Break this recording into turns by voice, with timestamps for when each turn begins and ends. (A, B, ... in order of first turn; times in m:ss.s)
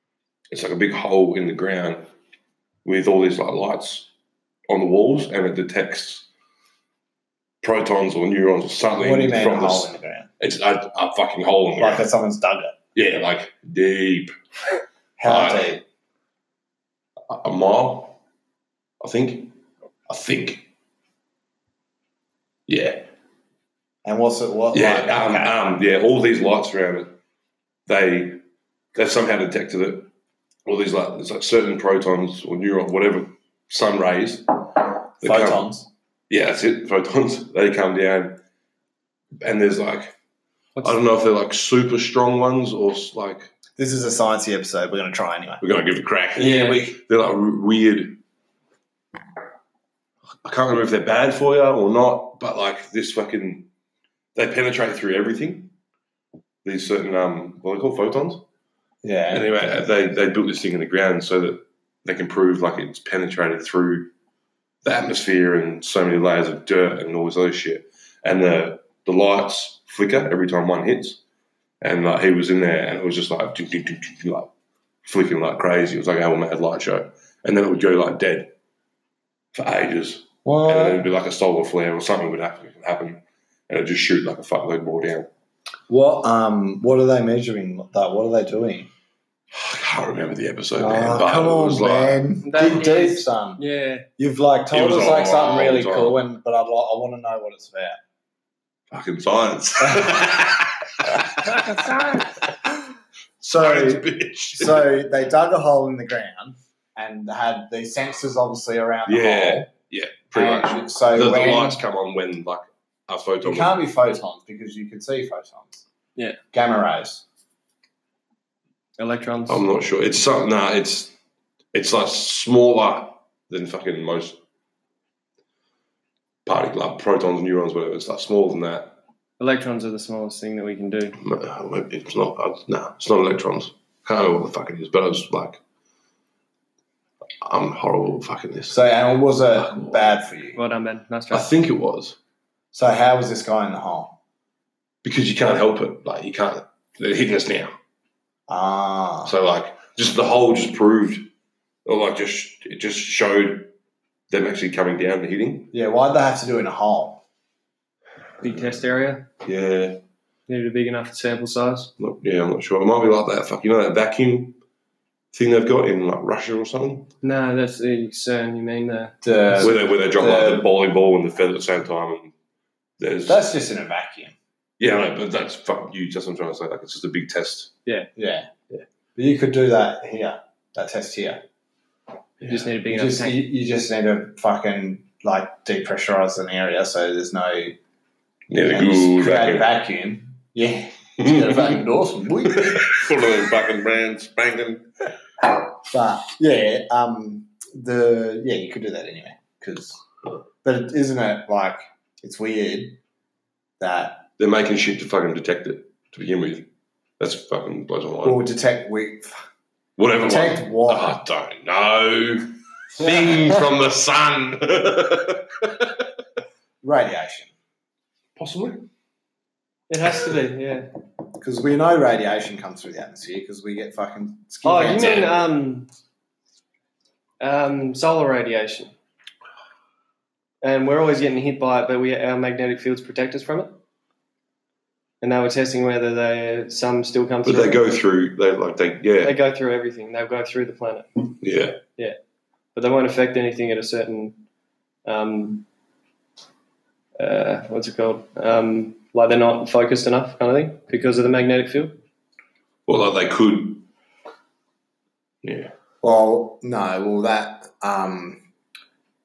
0:00.5-0:02.0 A
0:02.8-0:04.1 A
0:04.7-0:06.2 A
0:07.6-0:12.0 A
0:09.0-0:10.3 B
0:11.8-0:12.7 B
0:12.9-0:14.3 A
0:15.2-0:15.8 B
0:15.2-0:15.7 A
0:17.3-0:18.2 A
0:19.0-0:19.5 A
0:20.1-0:20.6 A
0:22.7-0:23.0 A
0:24.0-0:25.8 B
0:24.7-0:27.2 A
0:27.9-0:28.4 A
0:28.9-0:30.1 A
0:30.6-0:35.6 A
0:35.2-0:35.9 B
0:36.3-0:38.4 A
0:39.4-0:40.1 A
0:40.8-0:43.5 A
0:43.8-0:45.6 B
0:45.6-0:48.2 A
0:46.4-0:46.9 C
0:50.4-0:53.7 A
0:54.3-0:55.7 A
0:56.6-0:58.4 A
0:59.0-0:59.5 B
0:59.3-1:04.1 A
1:04.8-1:11.2 A
1:11.8-1:14.5 A
1:15.0-1:18.5 A
1:19.5-1:25.3 A
1:20.4-1:21.0 B
1:25.9-1:28.9 B
1:29.5-1:32.2 A
1:30.8-1:33.6 B
1:32.4-1:34.0 C
1:34.2-1:38.0 B
1:34.7-1:36.2 A
1:38.9-1:42.3 A
1:39.8-1:40.2 B
1:41.2-1:42.2 B
1:43.4-1:44.9 A
1:43.4-1:49.7 B
1:49.1-1:53.8 A
1:50.3-1:51.8 B
1:53.4-1:55.8 B
1:56.5-1:57.2 B
1:59.0-1:59.6 C
1:59.5-2:01.1 A
2:01.7-2:04.4 A
2:06.4-2:08.9 A
2:09.4-2:11.2 C
2:11.2-2:15.6 A
2:17.4-2:18.8 A
2:18.7-2:20.6 B
2:19.5-2:20.2 A
2:20.5-2:21.5 C
2:21.3-2:22.2 A
2:22.7-2:24.2 B
2:25.0-2:27.7 A
2:28.5-2:29.3 B
2:29.2-2:31.3 A
2:31.8-2:33.7 A
2:34.3-2:35.7 A
2:35.7-2:37.2 B
2:38.4-2:39.3 C
2:39.4-2:40.0 A
2:40.5-2:41.9 C
2:42.0-2:44.6 A
2:45.3-2:47.1 A
2:47.2-2:49.6 C
2:49.2-2:50.7 B
2:49.6-2:52.3 A
2:53.0-2:53.4 A
2:53.2-2:54.3 B
2:54.8-2:57.7 A
2:58.2-2:58.5 B
2:59.2-3:01.4 B
3:02.4-3:03.4 C
3:02.8-3:07.8 B
3:08.5-3:09.7 A
3:08.6-3:13.0 B
3:11.2-3:11.8 A
3:12.4-3:14.9 A
3:15.8-3:20.0 B
3:20.6-3:23.0 B
3:23.8-3:24.3 B
3:24.4-3:26.7 A
3:27.2-3:28.4 A
3:28.2-3:29.4 B
3:30.0-3:36.0 A
3:30.2-3:31.2 B
3:36.8-3:37.5 B
3:38.4-3:38.8 A
3:39.9-3:40.9 C
3:41.4-3:45.3 B
3:44.6-3:45.9 C
3:44.9-3:45.4 A
3:47.4-3:48.9 C
3:50.6-3:53.7 C
3:55.2-3:57.8 C
3:57.4-3:59.4 A
3:59.2-4:01.3 C
4:01.4-4:01.8 A
4:02.7-4:04.4 C
4:05.0-4:05.6 C
4:07.2-4:11.9 C
4:12.9-4:13.8 A
4:15.4-4:15.7 A
4:16.0-4:18.4 B